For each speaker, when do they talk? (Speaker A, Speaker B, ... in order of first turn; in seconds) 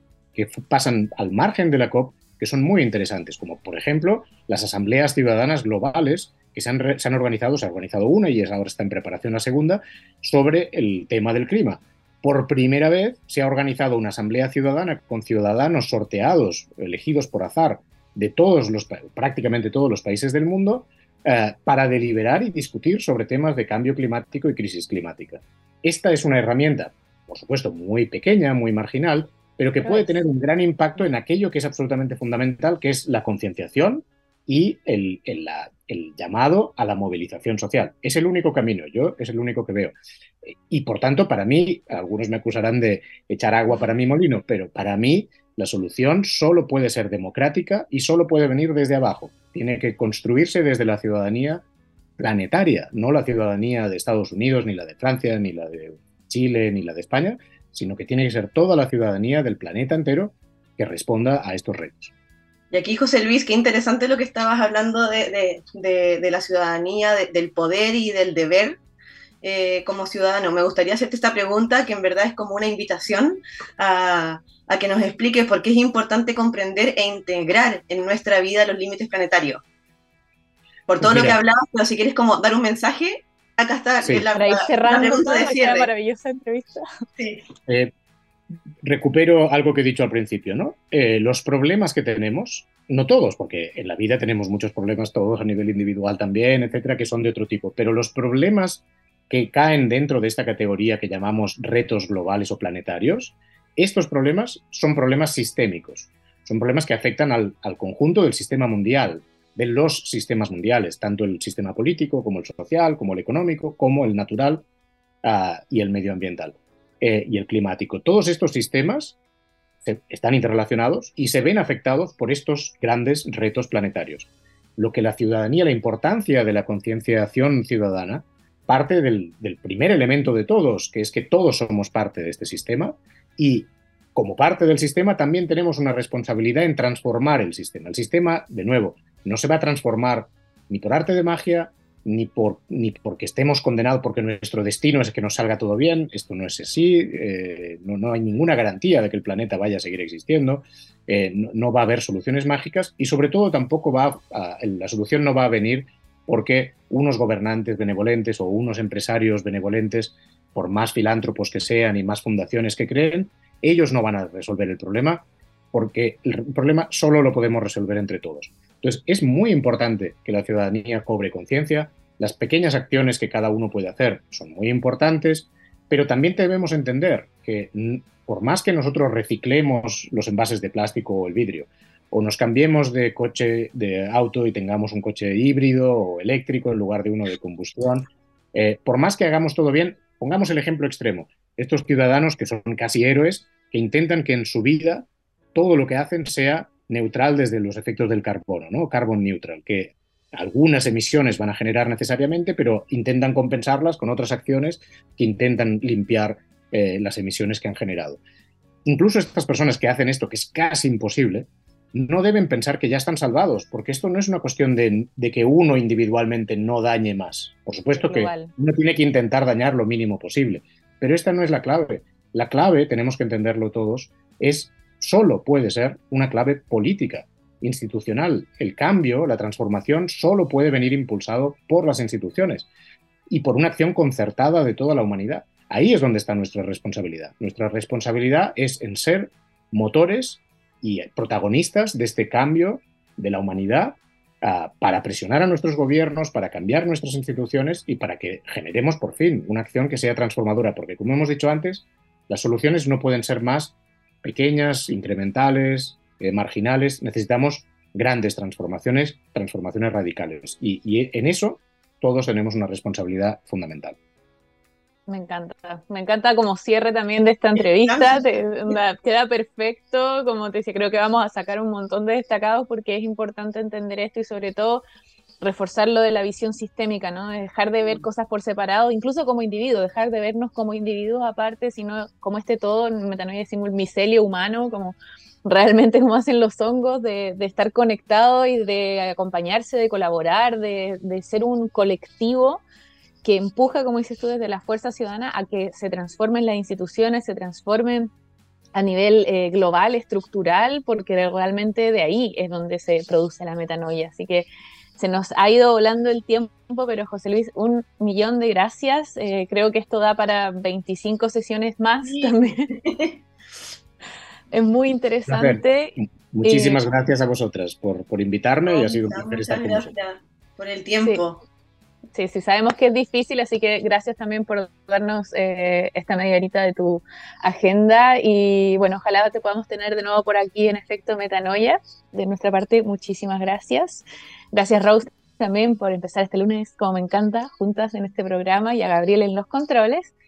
Speaker A: 0.3-51.6, 52.2-62.1, 81.0-81.4, 88.8-114.7, 115.2-119.2, 119.8-208.2, 208.8-232.7, 233.3-264.0, 315.3-319.9
Speaker B: 29.9-30.2, 84.3-86.9, 217.9-218.5, 265.1-274.8, 275.4-292.6, 293.2-298.1, 298.8-304.5, 305.0-312.7, 314.5-316.8, 322.1-340.1
Speaker C: 62.7-68.8, 69.4-79.6, 80.9-85.9, 87.2-87.4, 267.6-268.2, 312.1-313.2, 318.6-321.4